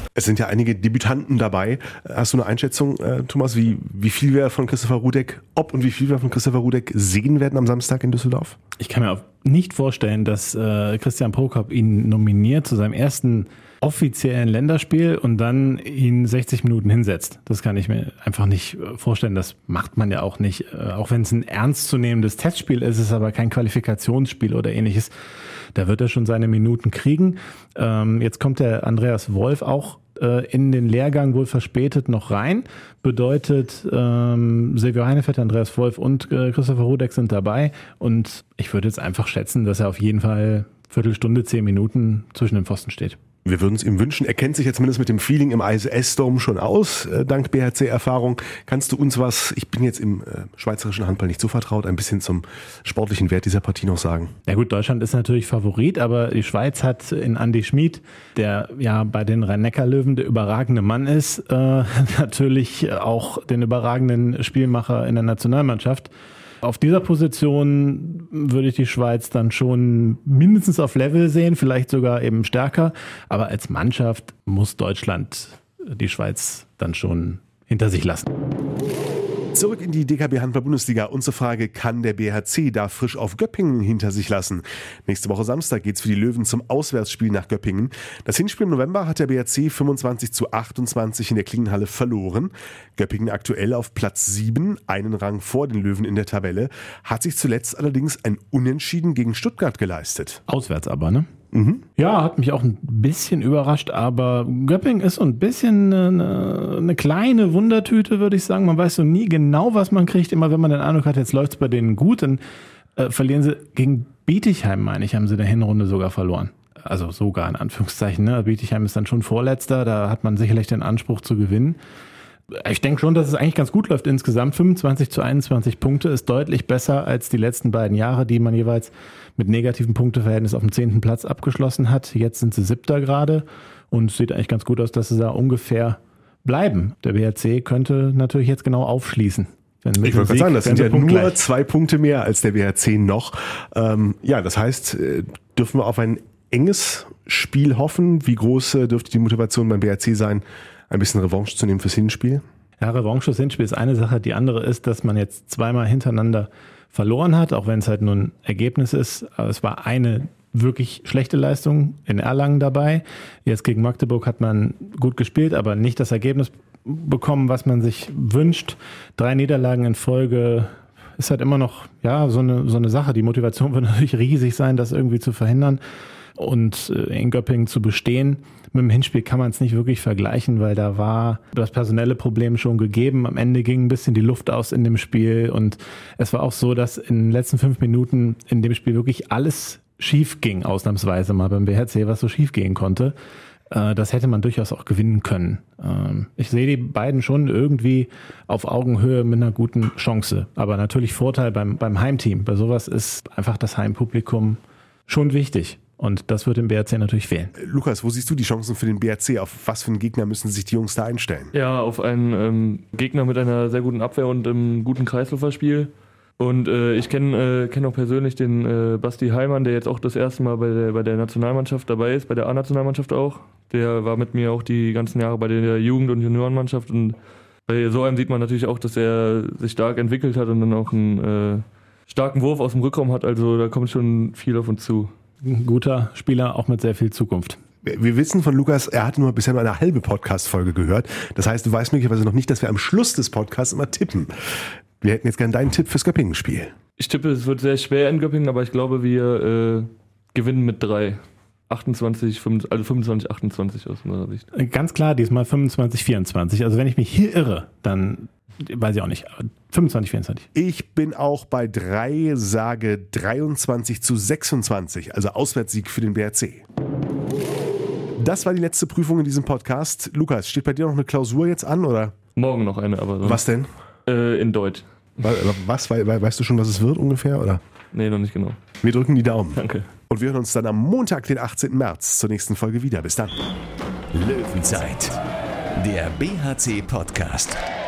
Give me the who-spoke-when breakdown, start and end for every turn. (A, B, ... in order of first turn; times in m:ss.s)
0:00.2-0:08.6 A
0:08.8-0:25.1 B
0:25.8-0:43.2 B
0:43.4-0:54.3 A
0:54.5-1:06.1 B
1:06.6-1:18.3 B
1:19.5-1:40.4 A
1:40.5-1:41.3 B
1:41.5-1:41.8 A
1:42.0-1:52.4 B
1:53.0-2:01.8 B
2:02.5-2:21.4 B
2:20.0-2:32.4 A
2:32.8-2:55.8 B
2:56.4-3:13.1 B
3:13.7-3:27.5 B
3:27.6-3:31.5 A
3:31.5-3:47.2 C
3:47.7-3:55.1 C
3:55.4-3:57.6 B
3:57.8-4:04.3 A
4:05.0-4:06.7 A
4:07.0-4:11.2 C
4:11.7-4:14.4 C
4:14.5-4:20.5 B
4:20.5-4:26.6 A
4:28.2-4:32.2 A
4:32.4-4:33.4 C
4:33.2-4:33.7 A
4:34.1-4:34.9 C
4:35.2-4:37.6 A
4:37.9-4:38.6 C
4:38.8-4:43.5 A
4:39.6-4:39.9 C
4:44.1-4:45.2 D
4:45.7-4:47.6 D